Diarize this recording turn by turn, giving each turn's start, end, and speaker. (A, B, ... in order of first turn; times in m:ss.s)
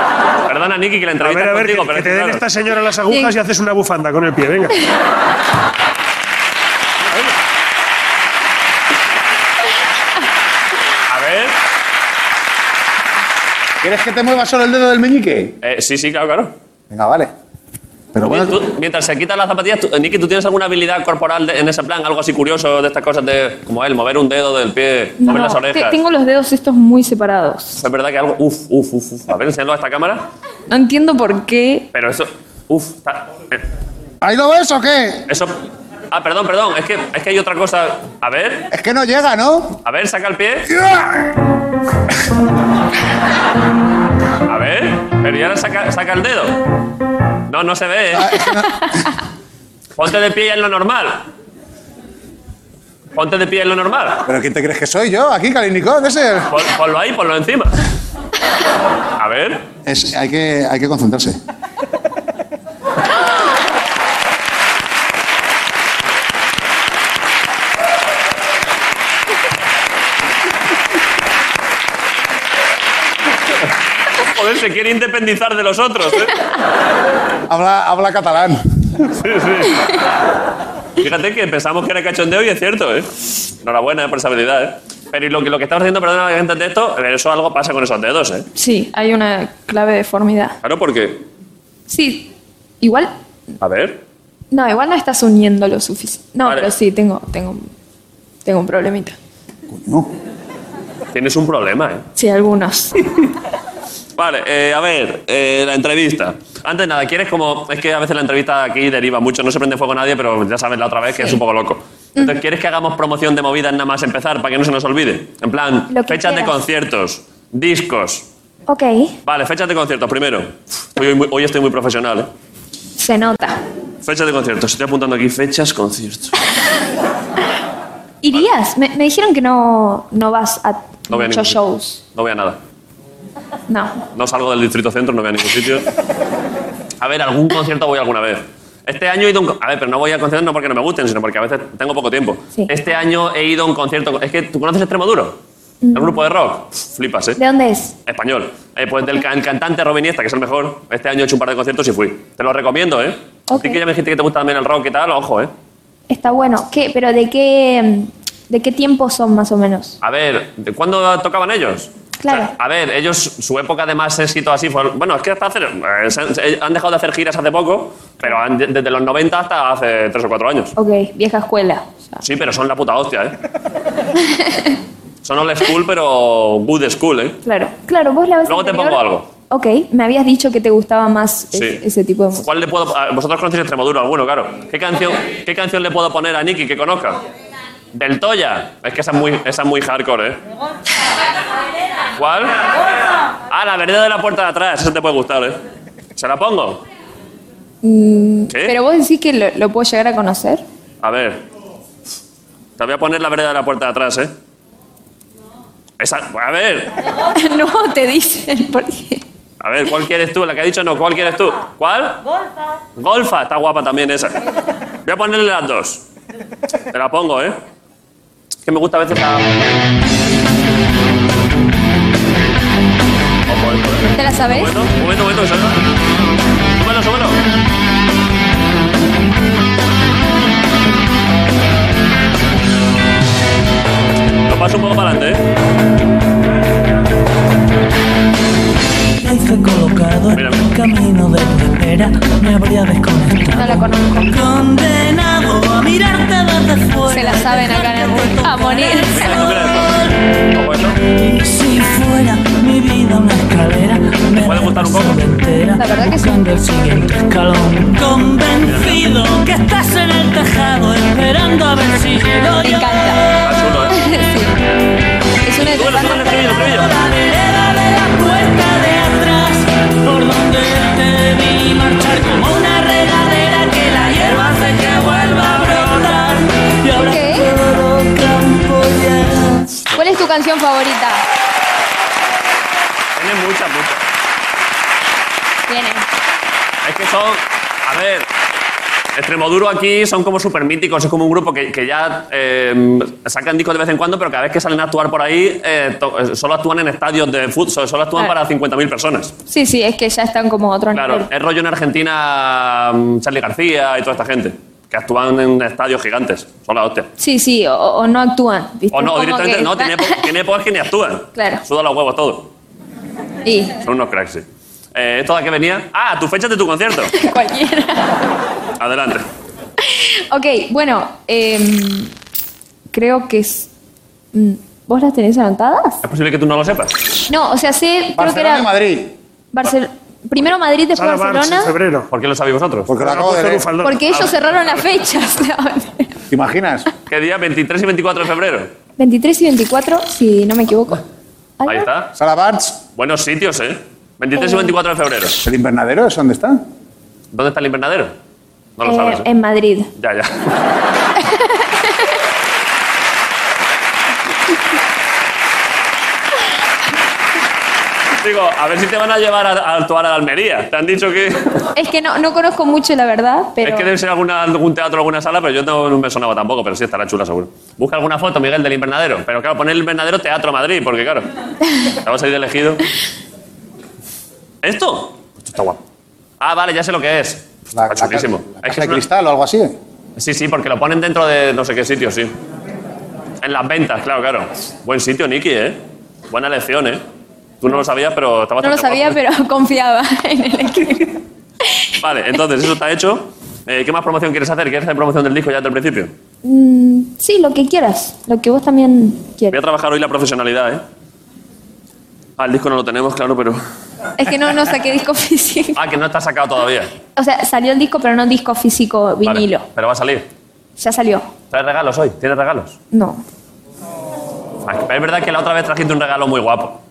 0:00.4-0:02.4 A
0:01.2-0:04.7 B
0:11.1-0:11.6 A
0:13.8-0:15.5 C
0:15.6-0:16.5 A
0:16.9-0:17.3 C
0:18.1-0:18.6 C
0:18.3-0:26.0 A
0:25.2-0:27.8 D
0:27.8-0:30.2 A
0:30.7-0:31.9 D
0:31.9-0:33.6 A
0:34.2-0:35.2 C
0:35.3-0:35.6 A
0:36.1-0:38.7 A
0:38.7-0:39.8 C
0:39.8-0:40.7 A
0:40.7-0:41.3 C
0:44.5-0:46.6 A
0:47.5-0:48.4 A
0:48.2-0:48.9 C
0:50.0-0:51.3 A
0:53.1-0:54.2 A
0:54.2-0:56.5 C
0:56.5-0:57.8 A
0:59.2-0:59.6 A
0:59.8-1:01.4 C
1:14.2-1:16.4 A
1:17.5-1:18.6 C
1:19.0-1:19.9 A
1:21.0-1:23.1 A
1:23.6-1:28.4 A
1:28.6-1:30.6 D
1:30.6-1:31.2 A
1:31.9-1:33.1 D
1:33.6-1:34.0 A
1:34.5-1:37.7 D
1:36.4-1:36.7 A
1:38.4-1:39.2 D
1:39.7-1:40.1 C
1:41.1-1:42.0 A
1:42.2-1:42.9 D
1:44.2-1:58.2 A
1:55.9-1:56.5 D
1:58.7-1:59.1 D
1:59.2-2:02.3 A
2:03.0-2:03.6 D
2:04.0-2:06.3 A
2:08.2-2:12.0 D
2:11.1-2:11.6 A
2:12.1-2:12.6 A
2:13.7-2:14.0 D
2:14.1-2:15.9 A
2:17.0-2:25.4 A
2:25.8-2:26.2 D
2:25.9-2:27.4 A
2:27.4-2:28.0 D
2:28.0-2:35.5 A
2:33.5-2:33.8 D
2:36.1-2:40.0 D
2:40.0-2:50.7 A
2:42.2-2:42.5 D
2:50.8-2:52.2 D
2:52.2-2:53.4 A
2:55.2-2:57.4 A
2:57.4-3:02.5 D
2:58.4-2:59.3 A
3:01.5-3:01.8 A
3:02.4-3:07.2 A
3:07.9-3:10.4 A
3:12.2-3:12.6 A
3:13.5-3:15.6 A
3:16.2-3:16.8 A
3:17.8-3:20.6 D
3:18.5-3:18.7 A
3:21.0-3:21.4 A
3:22.8-3:24.3 A
3:26.0-3:26.9 A
3:27.4-3:29.2 D
3:29.6-3:32.2 A
3:33.0-3:34.4 A
3:35.0-3:36.0 A
3:36.9-3:37.6 A
3:38.6-3:39.5 A
3:43.5-3:45.8 A
3:44.2-3:44.8 D
3:46.8-3:47.4 A
3:54.5-3:55.4 A
3:59.2-4:10.1 E
4:00.3-4:00.7 A
4:03.5-4:04.3 D
4:07.1-4:09.2 D
4:09.1-4:11.0 A
4:11.1-4:23.1 E
4:14.4-4:15.2 A
4:15.8-4:16.4 D
4:18.6-4:19.1 A
4:22.6-4:23.2 D
4:23.4-4:24.0 A
4:23.9-4:24.6 D
4:25.4-4:26.6 D
4:25.7-4:26.9 A
4:26.9-4:39.6 E
4:37.0-4:37.5 D
4:39.9-4:41.2 D
4:43.2-4:44.0 A
4:45.7-4:46.0 D
4:46.8-4:48.3 A
4:49.2-4:59.3 A
4:59.5-5:01.3 D
5:00.9-5:07.1 A
5:07.2-5:10.2 D
5:08.9-5:12.5 A
5:11.3-5:11.6 D
5:13.4-5:13.7 D
5:13.8-5:17.1 A
5:17.1-5:18.2 D
5:18.8-5:19.2 A
5:19.8-5:22.1 D
5:22.9-5:23.7 D
5:24.3-5:26.0 D
5:26.0-5:27.0 A
5:27.3-5:28.7 D
5:28.2-5:29.1 C
5:29.5-5:31.7 D
5:30.9-5:32.1 B
5:32.1-5:32.9 A
5:32.9-5:33.7 C
5:33.0-5:34.1 B
5:33.8-5:36.1 D
5:36.3-5:36.9 C
5:37.1-5:38.7 A
5:39.0-5:41.0 D
5:41.6-5:41.8 D
5:41.6-5:42.1 A
5:42.2-5:42.8 C
5:42.9-5:45.4 A
5:44.4-5:44.7 D
5:45.4-5:46.6 C
5:47.3-5:48.1 A
5:48.8-5:49.3 A
5:48.8-5:49.9 D
5:50.0-5:50.6 A
5:58.2-6:01.7 A
6:01.8-6:03.9 D
6:03.6-6:11.3 A
6:12.0-6:12.8 A
6:14.6-6:15.8 A
6:16.4-6:19.0 A
6:17.7-6:19.7 C
6:20.2-6:22.3 A
6:23.4-6:25.8 A
6:26.3-6:27.0 A
6:27.6-6:29.2 A
6:28.6-6:31.8 D
6:32.0-6:36.1 A
6:36.4-6:39.6 D
6:39.5-6:40.8 A
6:42.4-6:43.6 A
6:44.2-6:45.8 D
6:45.7-6:46.9 A
6:47.2-6:49.6 D
6:49.2-6:50.2 A
6:50.8-6:51.3 D
6:51.5-6:52.7 A
6:52.9-6:53.2 D
6:54.6-6:56.8 A